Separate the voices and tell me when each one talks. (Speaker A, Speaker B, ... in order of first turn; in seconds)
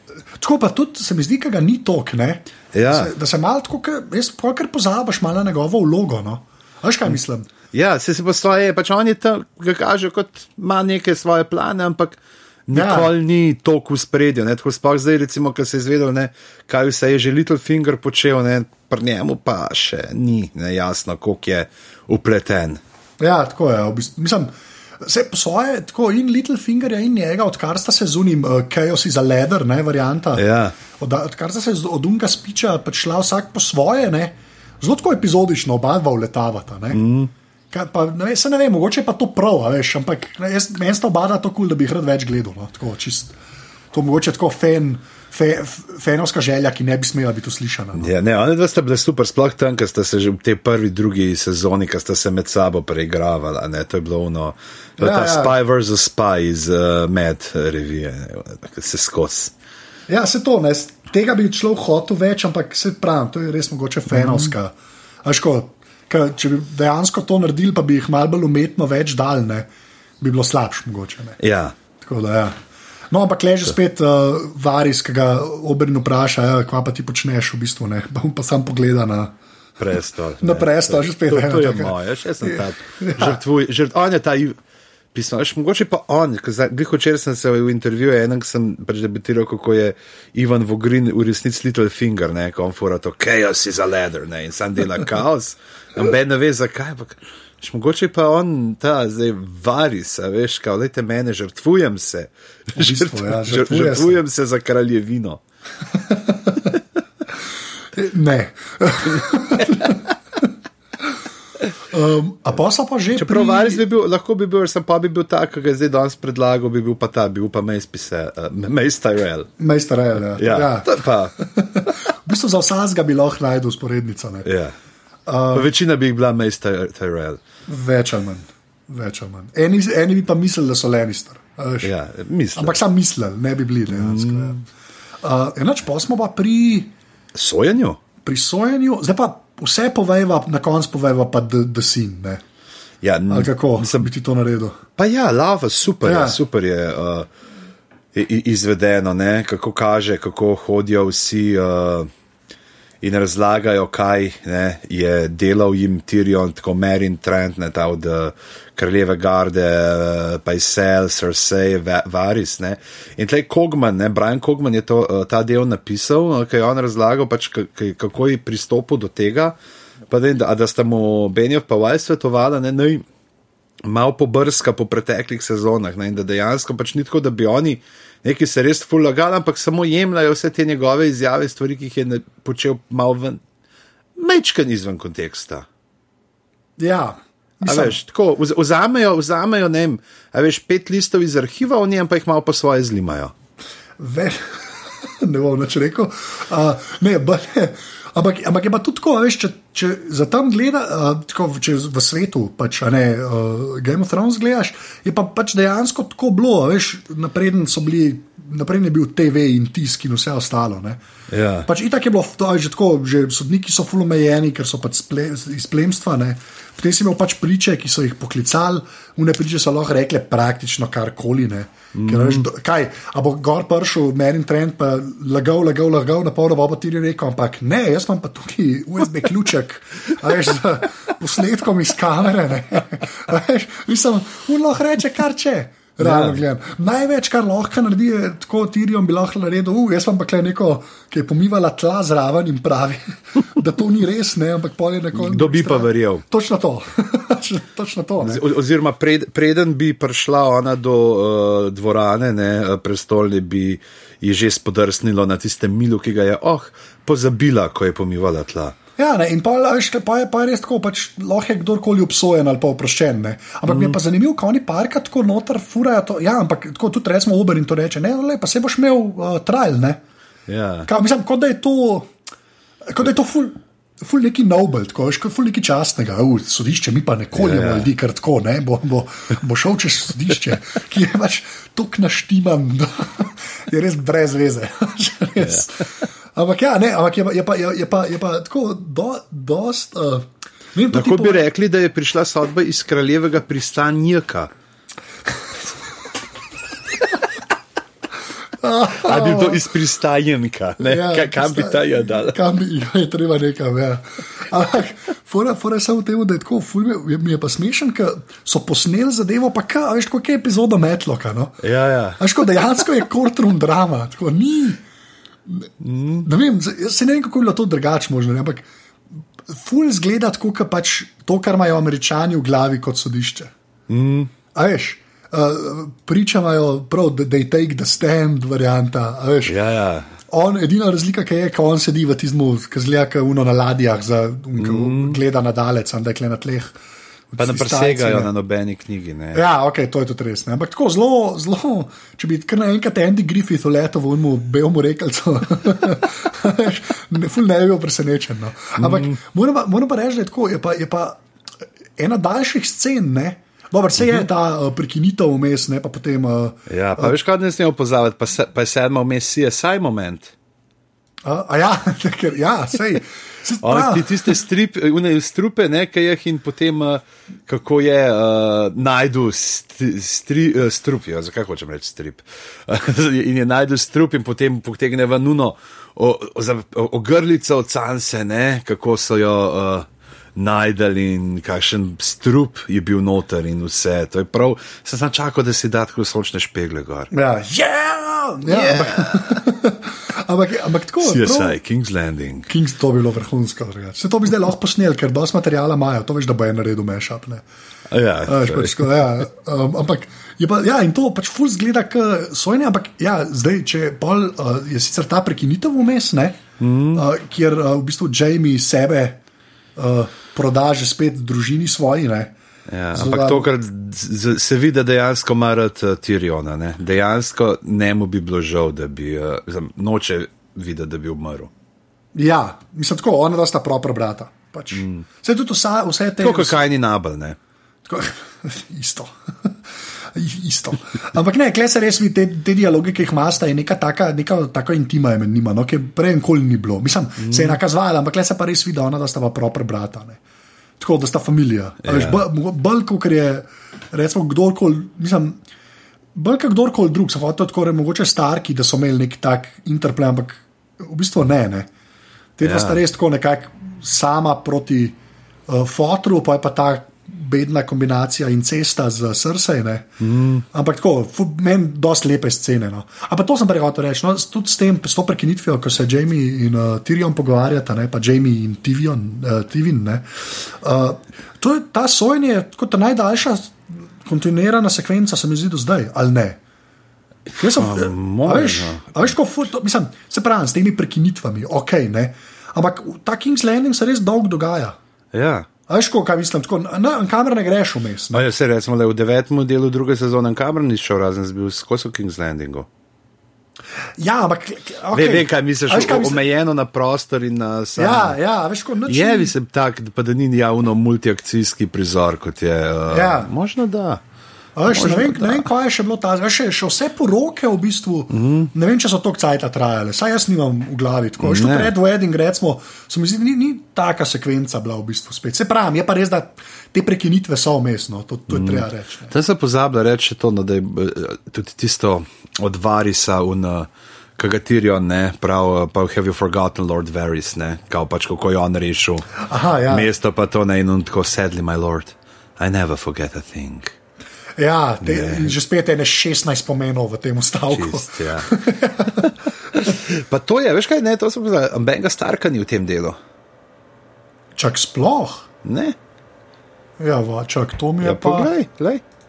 Speaker A: 0.4-7.5, 12.7-13.1, 23.2-37.0, 37.7-43.4, 43.9-48.1, 55.0-55.5, 60.1-69.7, 70.2-71.4, 72.0-72.6, 73.1-79.3, 80.4-83.4, 102.8-104.2, 105.9-106.7, 107.9-110.0, 111.9-113.8, 119.6-124.5, 125.3-125.7, 127.7-131.9, 132.6-134.6, 135.2-136.9, 138.2-142.4, 143.3-144.8, 146.0-146.4, 186.8-188.0, 194.0-211.0, 211.7-248.4, 259.0-270.0, 270.9-272.1, 272.9-291.5, 298.6-299.7, 300.8-311.6, 312.2-314.8, 316.2-318.7, 319.5-323.5, 324.5-329.6, 330.3-336.8, 337.3-338.3, 339.3-351.2, 352.0-357.2, 361.2-364.3, 387.1-391.6, 392.5-397.4, 398.3-406.4, 406.9-409.2, 409.8-412.4, 412.9-413.5, 422.1-426.6, 427.9-440.2, 440.8-445.4, 446.1-451.7, 452.4-459.9, 460.5-476.4, 477.4-484.8, 485.7-488.3, 494.0-496.2, 497.8-499.3, 502.9-503.3, 504.6-519.1, 529.3-529.9, 534.4-539.1, 544.4-545.3, 546.8-548.3
Speaker B: 2.7-3.1, 7.7-22.8, 30.4-30.8, 36.9-37.3, 48.0-59.5, 64.1-64.5, 71.4-71.8, 79.8-84.6, 85.1-105.4, 109.5-110.1, 113.2-119.5, 120.4-121.4, 124.4-124.8, 125.5-127.4, 131.8-132.8, 133.9-134.6, 137.3-138.0, 143.0-144.1, 145.0-147.3, 148.1-152.1, 153.0-169.6, 170.1-173.1, 173.8-183.4, 184.2-185.7, 187.7-193.3, 211.3-211.7, 221.9-222.5, 236.0-236.4, 245.1-246.2, 248.2-258.8, 263.7-264.0, 270.5-270.9, 277.4-277.9, 285.4-286.0, 290.9-294.5, 298.9-302.4, 311.6-312.2, 315.8-316.3, 323.9-324.3, 329.5-330.1, 334.6-335.2, 337.4-339.5, 348.8-349.2, 354.0-354.3, 356.7-360.3, 363.6-387.1, 388.5-389.4, 391.0-392.5, 397.9-398.9, 406.6-407.1, 412.7-421.5, 424.7-425.1, 426.2-427.4, 437.2-437.6, 441.8-442.2, 452.4-452.8, 460.0-460.4, 477.5-479.1, 485.1-485.5, 488.1-492.7, 494.9-498.2, 498.9-504.0, 504.7-505.5, 508.1-508.5, 511.2-511.7, 518.3-529.1, 529.7-533.7, 534.8-535.3, 537.5-538.3, 539.0-543.0, 545.5-545.8, 547.8-548.8